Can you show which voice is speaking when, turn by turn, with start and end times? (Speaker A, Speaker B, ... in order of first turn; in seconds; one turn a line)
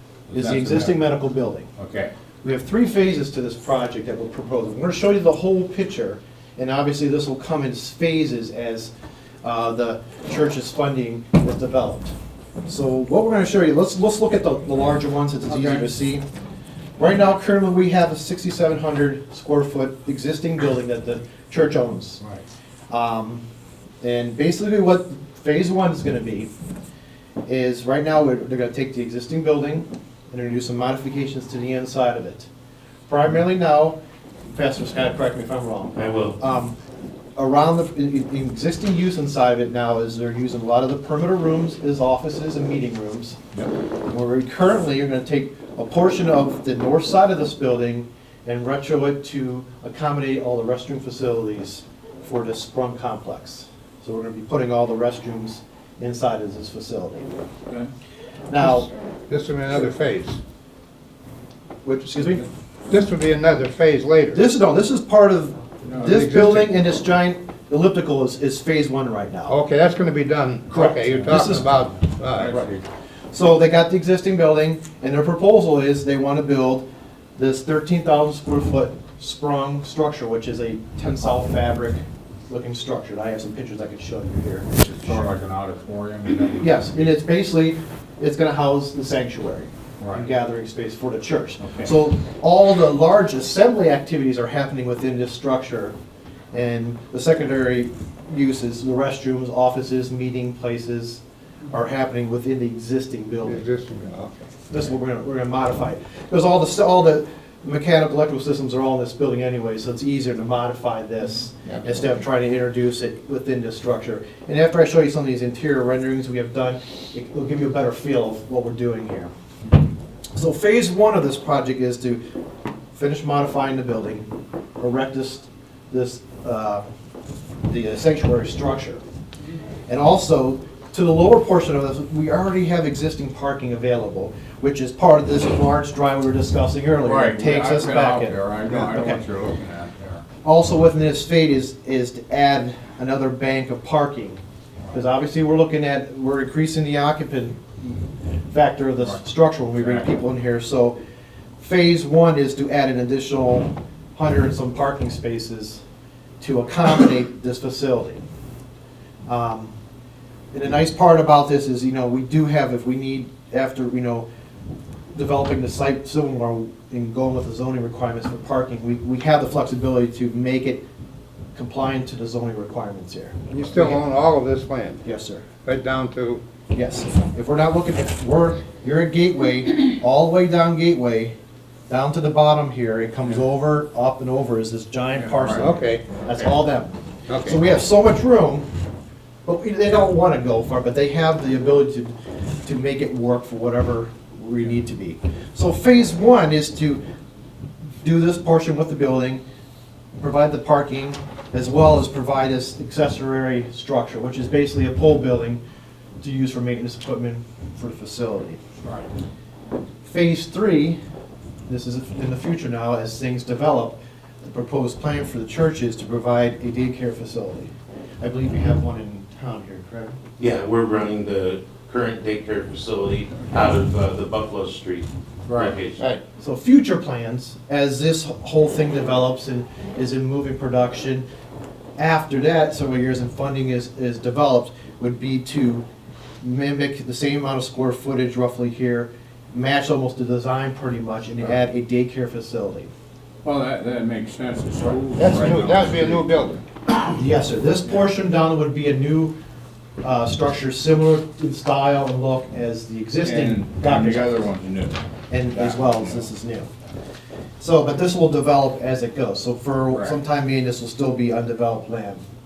Speaker A: 0.3-1.0
Speaker B: 0.3-1.7
Speaker A: 1.8-2.1
Speaker B: 2.4-8.9
Speaker B: 9.4-12.1
Speaker B: 12.7-16.3
Speaker A: 15.5-15.9
Speaker B: 17.0-22.2
Speaker B: 22.9-23.4
Speaker B: 24.0-26.5
Speaker B: 27.5-32.5
Speaker B: 33.1-34.0
Speaker B: 34.5-36.8
Speaker C: 36.0-36.4
Speaker B: 37.4-43.4
Speaker B: 44.1-57.4
Speaker B: 58.5-58.9
Speaker D: 58.6-60.4
Speaker B: 61.8-62.5
Speaker D: 62.9-64.5
Speaker B: 64.3-69.6
Speaker D: 66.0-66.8
Speaker D: 69.5-72.5
Speaker B: 70.7-71.8
Speaker A: 72.3-72.8
Speaker B: 73.3-76.8
Speaker B: 77.4-85.2
Speaker A: 85.0-86.8
Speaker B: 86.6-96.0
Speaker A: 90.0-90.3
Speaker A: 91.6-91.9
Speaker B: 96.5-103.7
Speaker D: 103.4-104.5
Speaker B: 104.7-119.3
Speaker B: 120.3-122.2
Speaker B: 122.9-124.3
Speaker B: 124.8-126.8
Speaker B: 127.7-129.0
Speaker B: 129.9-139.2
Speaker A: 137.0-140.2
Speaker B: 140.4-144.4
Speaker B: 144.9-151.0
Speaker A: 149.7-150.1
Speaker B: 151.6-155.8
Speaker B: 156.4-158.2
Speaker B: 159.3-159.7
Speaker B: 160.5-164.3
Speaker B: 165.1-170.8
Speaker B: 171.6-174.0
Speaker D: 173.5-175.0
Speaker B: 175.0-175.5
Speaker D: 175.6-176.4
Speaker B: 176.7-181.3
Speaker B: 181.9-188.7
Speaker A: 185.2-185.7
Speaker D: 185.6-186.0
Speaker A: 186.3-186.5
Speaker D: 187.3-187.6
Speaker B: 189.5-197.0
Speaker B: 198.0-199.4
Speaker B: 200.2-205.6
Speaker B: 206.2-208.6
Speaker A: 208.8-209.1
Speaker B: 210.0-211.0
Speaker B: 211.7-220.2
Speaker C: 220.4-226.1
Speaker A: 225.5-225.8
Speaker B: 226.4-231.2
Speaker B: 232.0-235.8
Speaker B: 236.4-242.9
Speaker A: 243.4-246.3
Speaker D: 245.2-246.6
Speaker B: 247.1-249.3
Speaker B: 250.0-254.4
Speaker A: 253.2-256.3
Speaker B: 255.3-256.7
Speaker B: 257.6-262.2
Speaker A: 259.9-260.2